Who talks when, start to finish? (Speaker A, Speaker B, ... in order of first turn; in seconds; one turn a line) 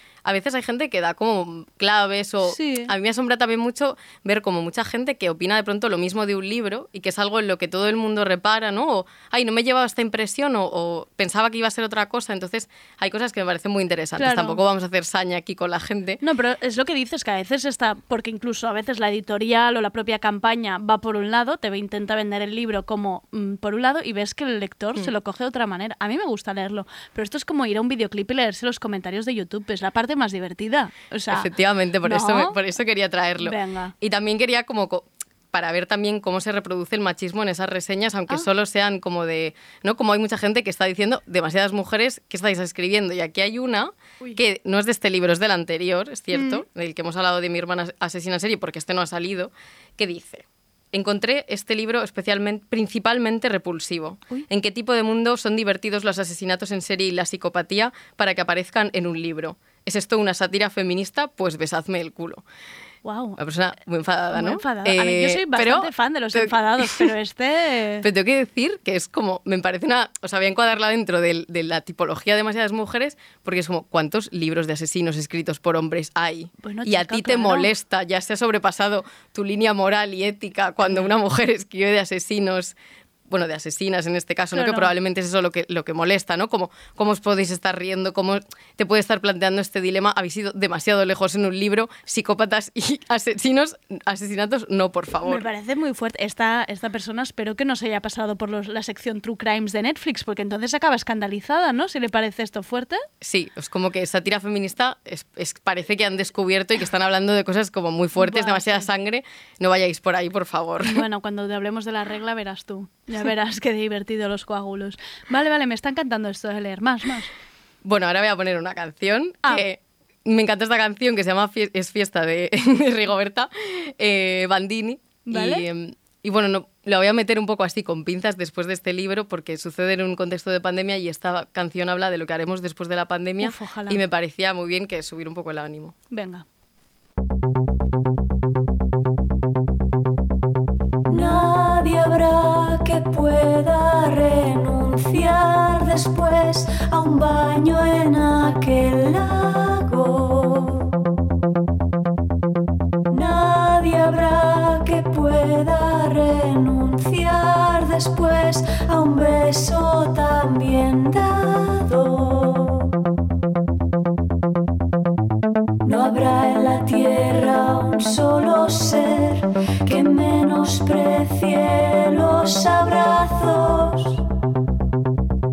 Speaker A: 0.2-16.2
Speaker B: 2.4-2.9
Speaker B: 14.2-14.6
Speaker B: 16.2-31.5
Speaker A: 31.3-62.4
Speaker B: 32.0-32.6
Speaker B: 33.4-33.9
Speaker B: 46.3-46.6
Speaker B: 63.0-63.4
Speaker A: 63.4-67.1
Speaker B: 64.3-68.1
Speaker A: 68.0-82.8
Speaker B: 76.6-77.7
Speaker B: 80.8-81.1
Speaker A: 83.3-95.5
Speaker B: 84.5-84.9
Speaker B: 95.2-103.0
Speaker A: 103.2-111.0
Speaker B: 108.2-108.9
Speaker B: 110.8-117.3
Speaker A: 117.8-135.9
Speaker B: 125.2-125.7
Speaker B: 133.4-134.0
Speaker B: 136.1-136.4
Speaker C: 141.1-150.9
Speaker C: 153.1-162.9
Speaker C: 165.8-174.2